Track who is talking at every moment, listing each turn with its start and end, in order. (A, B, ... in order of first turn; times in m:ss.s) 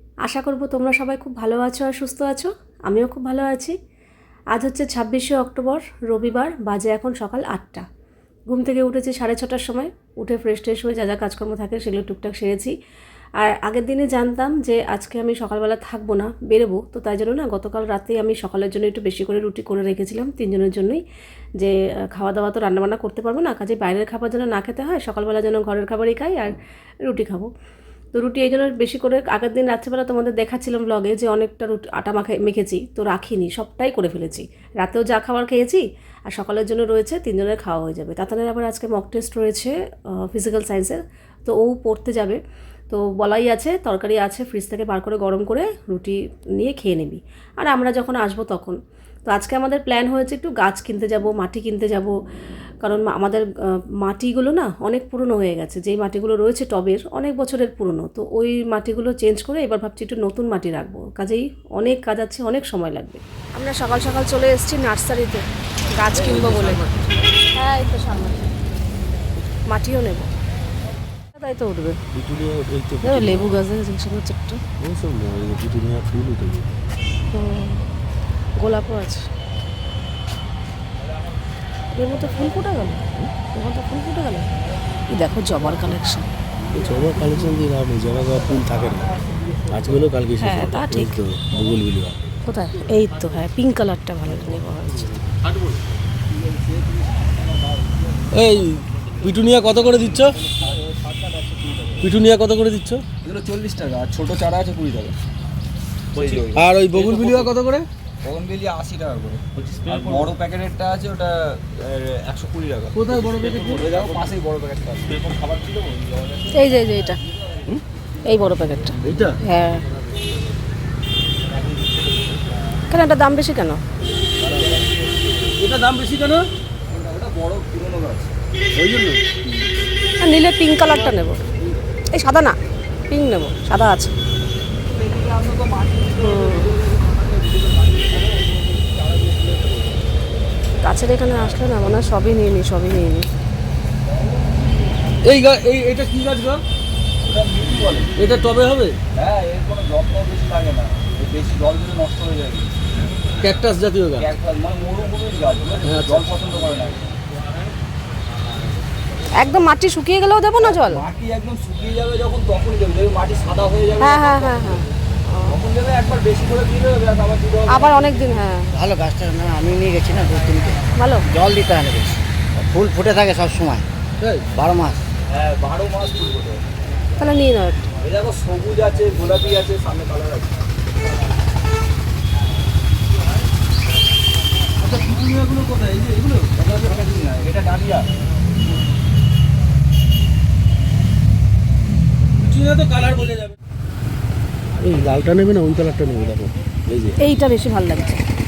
0:00.2-0:03.8 A
0:04.5-0:07.8 A
0:08.5-0:12.7 A
0:13.4-0:21.0 A
0:21.6-0:27.5 A
0:28.1-0:52.2 A
0:52.8-0:53.5 A
0:54.0-1:06.9 A
1:06.2-1:07.2 B
1:07.5-1:08.5 A
1:09.7-1:10.3 A
1:11.4-1:12.0 A
1:12.1-1:13.6 B
1:13.0-1:14.6 A
1:14.8-1:16.8 B
1:17.3-1:17.8 A
1:18.6-1:19.2 A
1:21.9-1:24.5 A
1:25.1-1:26.3 A
1:26.7-1:29.2 B
1:29.7-1:32.2 B
1:30.4-1:31.2 A
1:32.5-1:35.1 A
1:36.3-1:38.5 C
1:38.3-1:40.4 B
1:39.9-1:42.1 C
1:42.0-1:43.0 B
1:43.2-1:45.2 C
1:46.1-1:47.5 C
1:46.2-1:47.9 B
1:48.2-1:57.0 C
1:49.6-1:50.3 B
1:52.9-1:54.3 B
1:56.5-1:57.2 A
1:58.3-1:59.8 A
1:59.0-1:59.4 B
2:01.6-2:02.5 C
2:02.9-2:03.8 A
2:04.4-2:05.5 C
2:04.4-2:04.8 B
2:05.6-2:06.5 B
2:06.9-2:08.3 C
2:08.8-2:09.4 B
2:10.2-2:11.4 A
2:12.1-2:12.6 A
2:13.1-2:14.1 A
2:14.9-2:20.0 C
2:16.2-2:16.7 A
2:20.8-2:23.3 A
2:25.2-2:26.6 B
2:27.2-2:28.1 C
2:28.2-2:29.0 B
2:29.1-2:32.7 C
2:33.4-2:34.3 B
2:34.2-2:37.1 C
2:35.8-2:36.3 B
2:39.4-2:41.0 A
2:40.6-2:44.9 C
2:44.0-2:45.6 A
2:45.5-2:48.4 C
2:47.7-2:48.8 A
2:48.7-2:53.9 D
2:51.0-2:51.3 A
2:54.2-2:54.5 B
2:54.5-2:55.0 D
2:55.3-2:56.6 C
2:57.2-2:57.9 A
2:58.0-3:00.5 C
3:04.8-3:06.7 B
3:06.6-3:08.1 C
3:12.4-3:13.6 B
3:14.8-3:17.2 B
3:17.2-3:18.2 A